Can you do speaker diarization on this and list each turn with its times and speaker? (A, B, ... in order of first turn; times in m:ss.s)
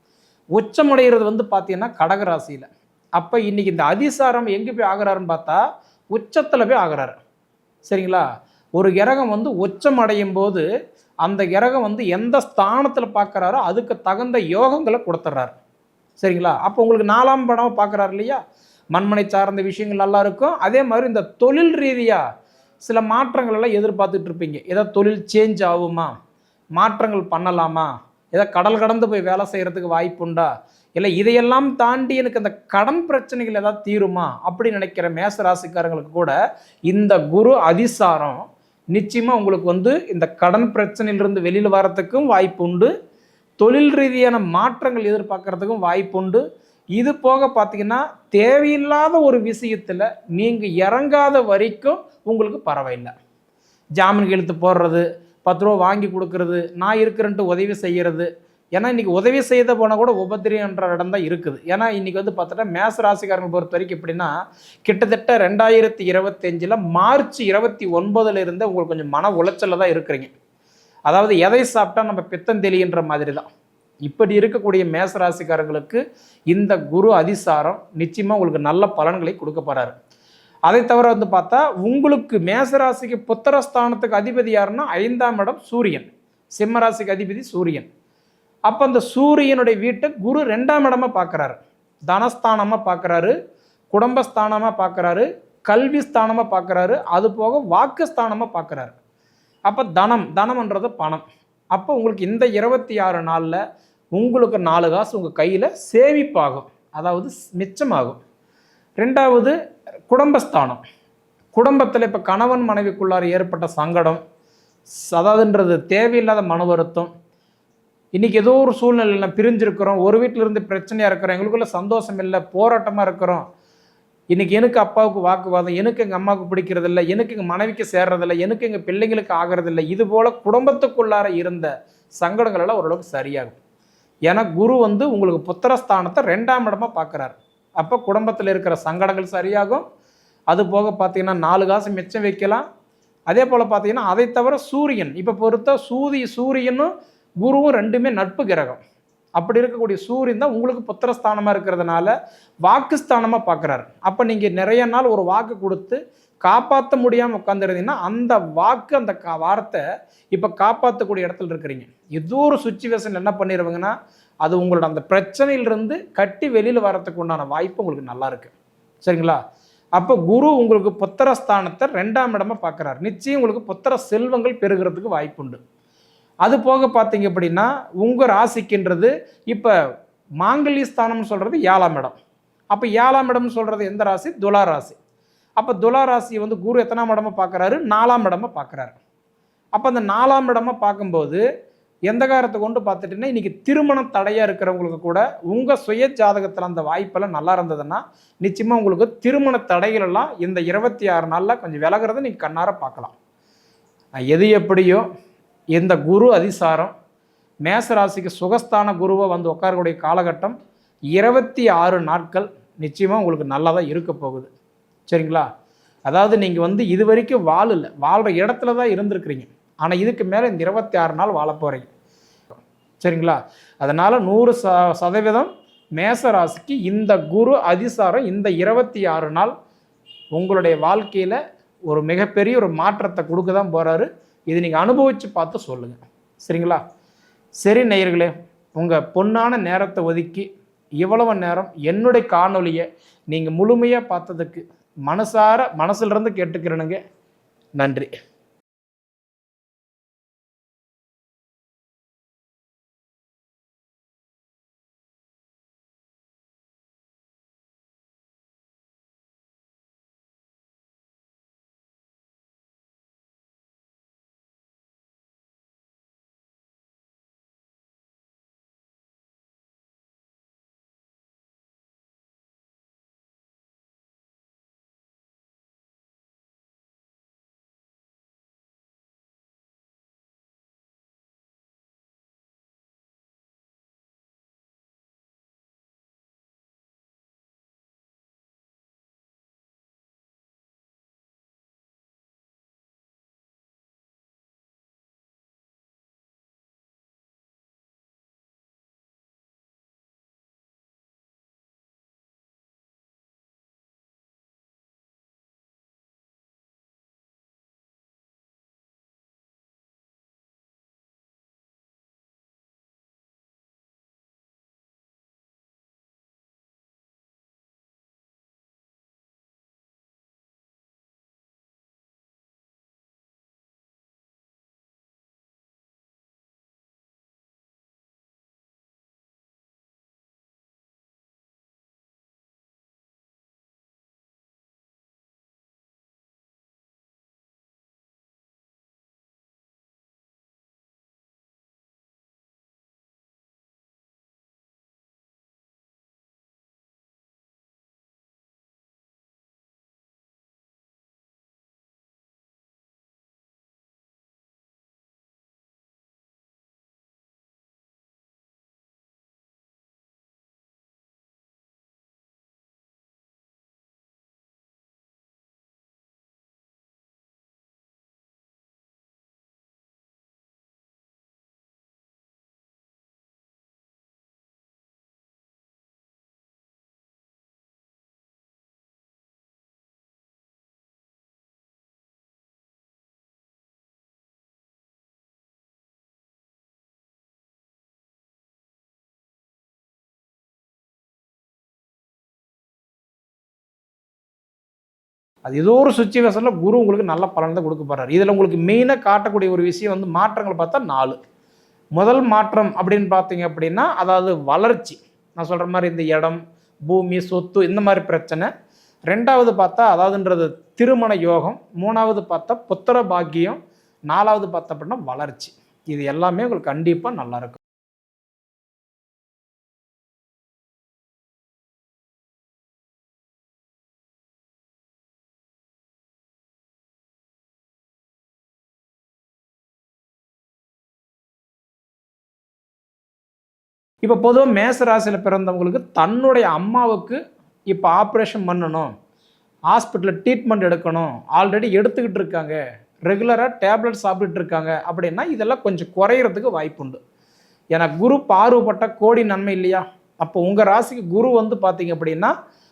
0:00.6-0:05.6 A
0:06.1-0:07.2 A
0:07.9-0:08.2 A
0:08.8-0:10.7 A
0:11.2-0:15.5 A
0:16.2-0:18.4 A
0:18.9-0:22.2 A
0:22.8-0:26.1 A
0:26.8-0:36.4 A
0:36.9-0:42.9 A
0:43.6-0:46.4 A
0:47.0-0:53.1 A
0:54.0-1:04.3 A
1:04.8-1:10.3 A
1:11.1-1:13.5 A
1:14.0-1:20.0 A
1:20.7-1:27.9 A
1:28.7-1:31.6 A
1:32.1-1:33.3 A
1:33.9-1:39.0 A
1:39.7-1:43.6 A
1:44.2-1:48.2 A
1:49.0-1:49.6 A
1:50.1-1:50.8 A
1:51.5-1:54.2 A
1:55.1-1:57.1 A
1:58.2-2:03.4 A
2:04.3-2:13.6 A
2:14.3-2:19.8 A
2:20.5-2:22.6 A
2:23.3-2:28.8 A
2:29.4-2:32.1 A
2:32.6-2:49.4 A
2:50.0-2:55.6 A
2:56.4-2:59.7 A
3:00.4-3:02.2 A
3:02.7-3:05.0 A
3:05.6-3:09.0 A
3:09.8-3:11.4 A
3:12.1-3:23.1 A
3:24.2-3:25.1 A
3:25.7-3:26.9 A
3:27.6-3:30.6 A
3:31.1-3:34.5 A
3:35.1-3:35.5 A
3:36.1-3:41.9 A
3:42.5-3:49.5 A
3:50.3-3:56.8 A
3:57.6-4:00.5 A
4:01.0-4:07.0 A
4:07.8-4:08.1 A
6:35.4-6:41.2 A
6:42.0-6:48.5 A
6:49.1-6:57.6 A
7:14.0-7:18.9 A
7:19.7-7:27.0 A
7:27.7-7:32.3 A